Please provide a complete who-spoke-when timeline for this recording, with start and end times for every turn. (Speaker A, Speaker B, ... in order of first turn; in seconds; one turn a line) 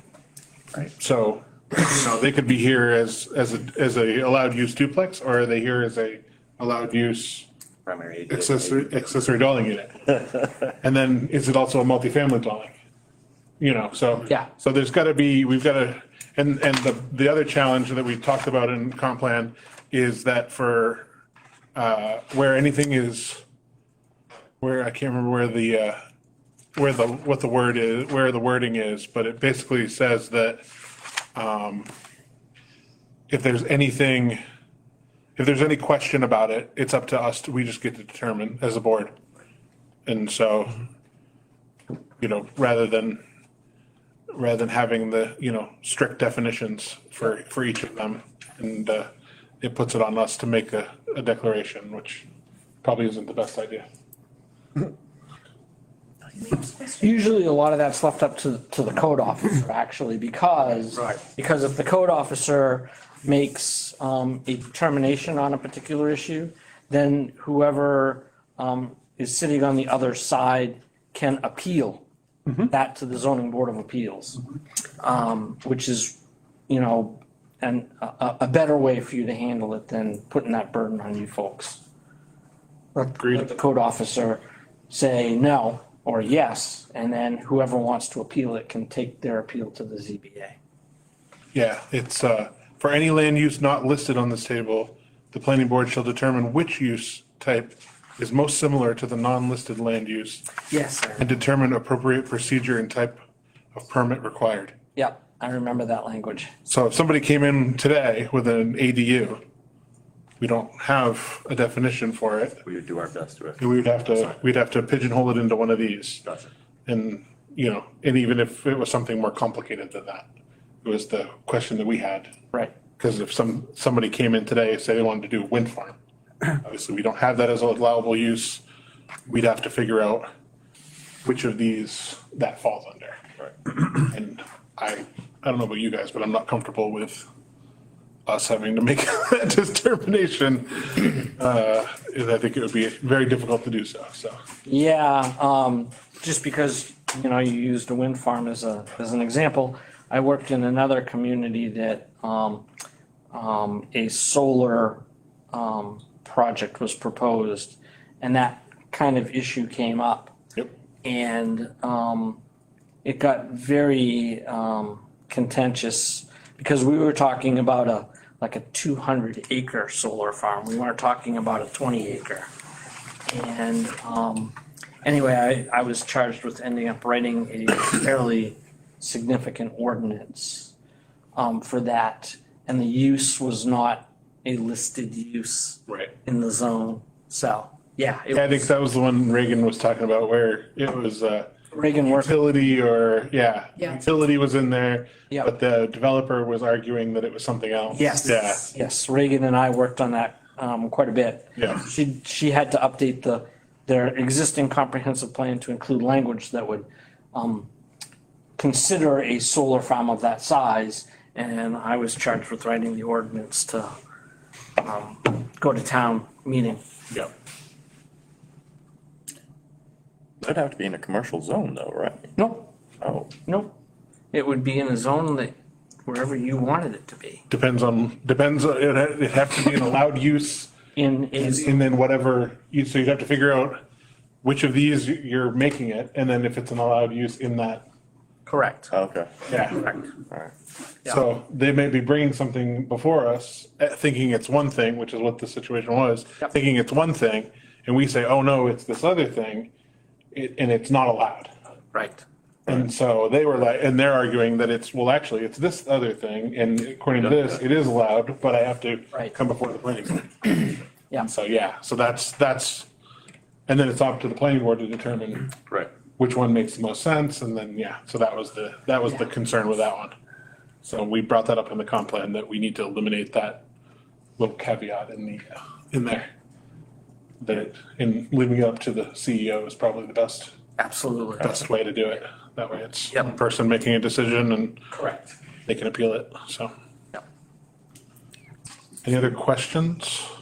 Speaker A: 0.8-7.5
Speaker B: 7.8-8.5
Speaker A: 8.3-12.7
Speaker A: 13.6-21.1
Speaker A: 21.7-23.4
Speaker A: 24.6-26.0
Speaker A: 26.7-30.6
Speaker A: 31.2-31.9
Speaker A: 33.3-34.4
Speaker A: 35.4-39.1
Speaker A: 40.0-40.8
Speaker A: 42.2-43.2
Speaker A: 44.3-49.1
Speaker A: 49.6-52.3
Speaker A: 52.8-53.9
Speaker C: 56.5-72.0
Speaker C: 72.5-74.4
Speaker C: 75.0-81.8
Speaker C: 83.0-90.5
Speaker A: 83.1-83.5
Speaker A: 91.5-100.5
Speaker C: 100.7-101.3
Speaker A: 101.2-103.2
Speaker A: 103.7-104.7
Speaker C: 105.0-106.5
Speaker A: 106.7-109.4
Speaker A: 110.4-112.6
Speaker B: 112.6-113.6
Speaker A: 113.6-116.2
Speaker B: 116.2-116.5
Speaker A: 116.8-120.3
Speaker A: 120.8-122.3
Speaker A: 123.0-126.0
Speaker A: 126.5-128.6
Speaker A: 129.3-130.3
Speaker A: 131.2-133.2
Speaker A: 133.8-137.3
Speaker A: 138.2-144.4
Speaker C: 144.6-152.7
Speaker C: 153.3-160.3
Speaker C: 161.0-162.4
Speaker C: 163.0-172.5
Speaker C: 173.3-180.7
Speaker C: 181.3-188.7
Speaker A: 185.9-186.1
Speaker A: 188.3-191.5
Speaker C: 191.7-192.3
Speaker A: 192.1-198.7
Speaker C: 197.9-207.7
Speaker A: 201.6-201.8
Speaker C: 208.6-213.9
Speaker C: 214.8-216.8
Speaker B: 220.4-222.3
Speaker C: 222.3-222.7
Speaker B: 223.0-223.3
Speaker C: 223.4-223.7
Speaker C: 224.3-225.5
Speaker C: 226.1-227.4
Speaker A: 227.5-230.7
Speaker C: 230.9-231.8
Speaker A: 231.4-233.8
Speaker A: 234.4-237.8
Speaker C: 238.5-238.9
Speaker B: 238.9-239.3
Speaker A: 239.5-240.0
Speaker A: 241.0-249.7
Speaker A: 250.3-251.5
Speaker C: 251.9-252.2
Speaker A: 252.7-262.9
Speaker A: 263.7-265.6
Speaker A: 266.1-270.1
Speaker A: 270.8-273.6
Speaker A: 274.4-276.2
Speaker A: 277.4-280.5
Speaker C: 280.8-281.5
Speaker A: 281.4-284.8
Speaker C: 284.9-285.3
Speaker A: 285.7-286.7
Speaker A: 289.0-290.3